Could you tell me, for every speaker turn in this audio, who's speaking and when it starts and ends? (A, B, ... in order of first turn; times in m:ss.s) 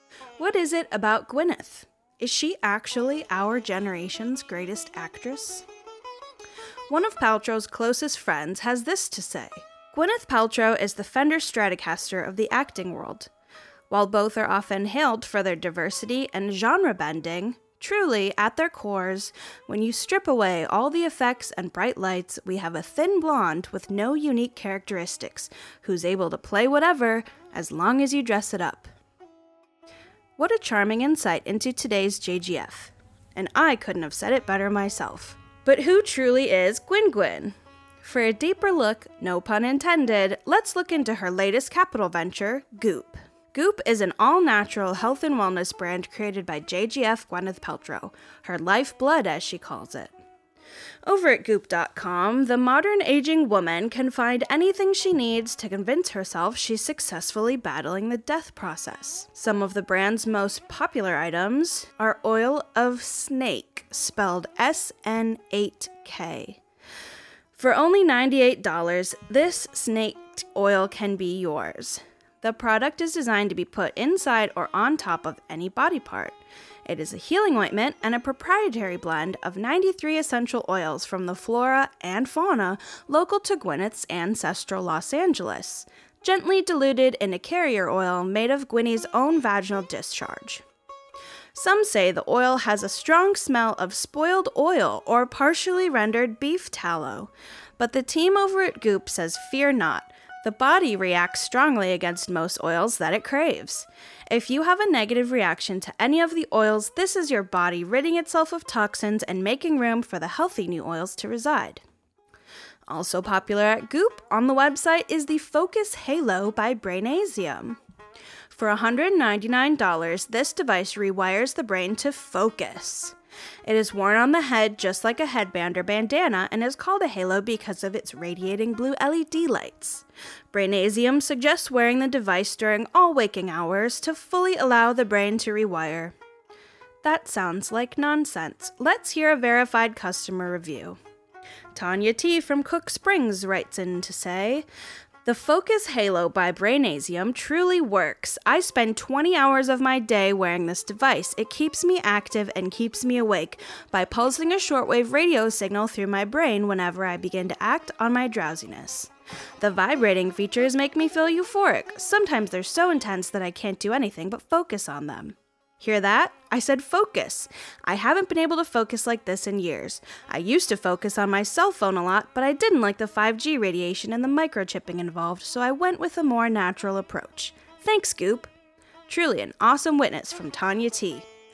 0:00.4-0:05.6 A
0:06.9-0:13.3 A
0:13.9-0:28.9 A
0:30.4-0:50.1 A
0:51.1-1:06.6 A
1:07.6-1:30.6 A
1:31.5-1:51.8 A
1:52.9-1:57.8 A
1:58.5-2:03.1 A
2:03.6-2:16.1 A
2:17.0-2:21.0 A
2:21.7-2:24.6 A
2:25.2-2:58.5 A
2:59.1-3:01.3 A